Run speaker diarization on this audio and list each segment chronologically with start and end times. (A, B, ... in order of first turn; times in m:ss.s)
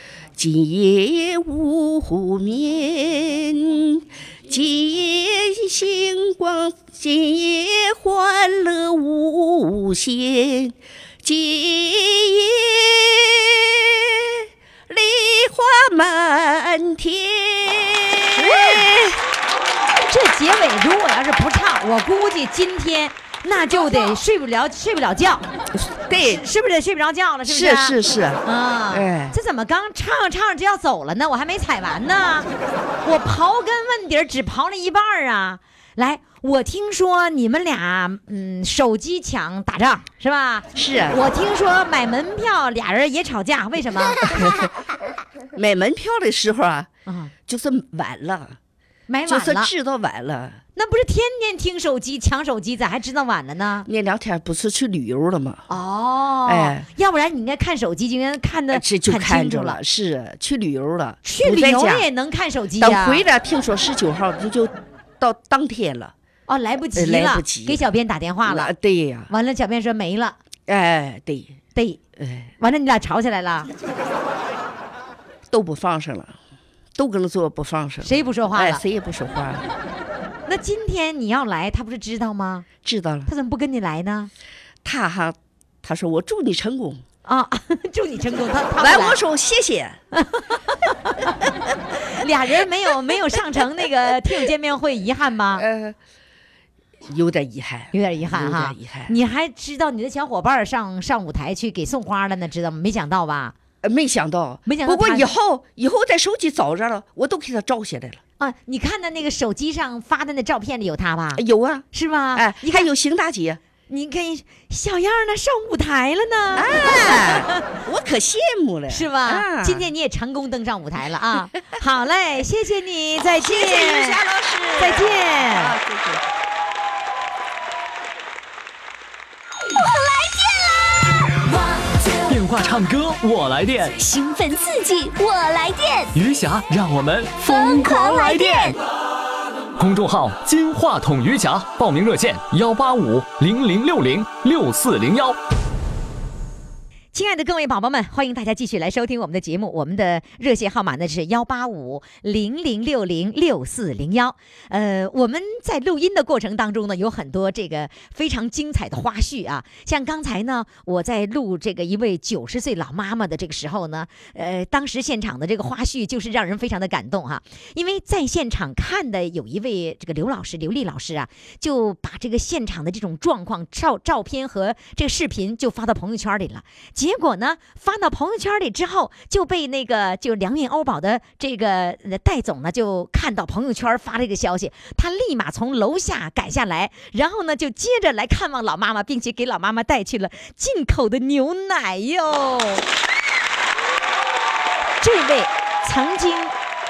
0:00.4-0:19.2 A
0:18.4-0:18.9 B
0:20.1-0:25.4 B
0:25.7-0:26.4 A
0:26.2-0:32.5 B
0:27.5-0:29.4 A
0:33.0-0:44.2 B
0:40.8-0:41.2 A
0:44.3-0:44.7 A
0:45.5-0:46.9 A
0:47.0-0:47.3 B
0:47.5-0:48.6 A
0:49.1-0:49.7 B
0:49.3-0:50.6 A
0:50.8-0:53.9 B
0:53.9-0:55.6 A
0:55.7-0:59.8 B
0:56.5-0:56.9 A
0:58.7-1:02.0 A
1:01.2-1:03.2 B
1:02.8-1:06.1 A
1:06.5-1:08.7 B
1:07.0-1:07.8 A
1:08.4-1:09.3 A
1:09.3-1:10.4 B
1:10.7-1:11.6 A
1:11.8-1:12.0 B
1:12.2-1:12.5 A
1:12.6-1:13.7 B
1:15.5-1:16.4 A
1:17.0-1:19.7 A
1:18.0-1:18.8 B
1:20.5-1:22.7 B
1:22.8-1:23.3 A
1:23.3-1:24.3 B
1:24.8-1:27.0 A
1:27.2-1:29.2 B
1:28.8-1:30.0 A
1:30.1-1:31.3 B
1:32.1-1:35.6 B
1:35.5-1:36.0 A
1:37.1-1:39.1 A
1:37.9-1:43.5 B
1:43.8-1:48.2 A
1:44.6-1:45.3 B
1:48.4-1:52.9 B
1:51.4-1:53.6 A
1:53.9-1:57.6 B
1:56.5-1:59.9 A
1:58.9-2:04.2 B
2:03.4-2:06.2 A
2:04.8-2:05.8 B
2:09.8-2:12.2 C
2:12.3-2:14.0 D
2:14.0-2:16.1 C
2:16.1-2:18.7 D
2:17.4-2:18.8 C
2:19.8-2:25.4 D
2:27.1-3:12.8 B
3:15.0-3:16.5 B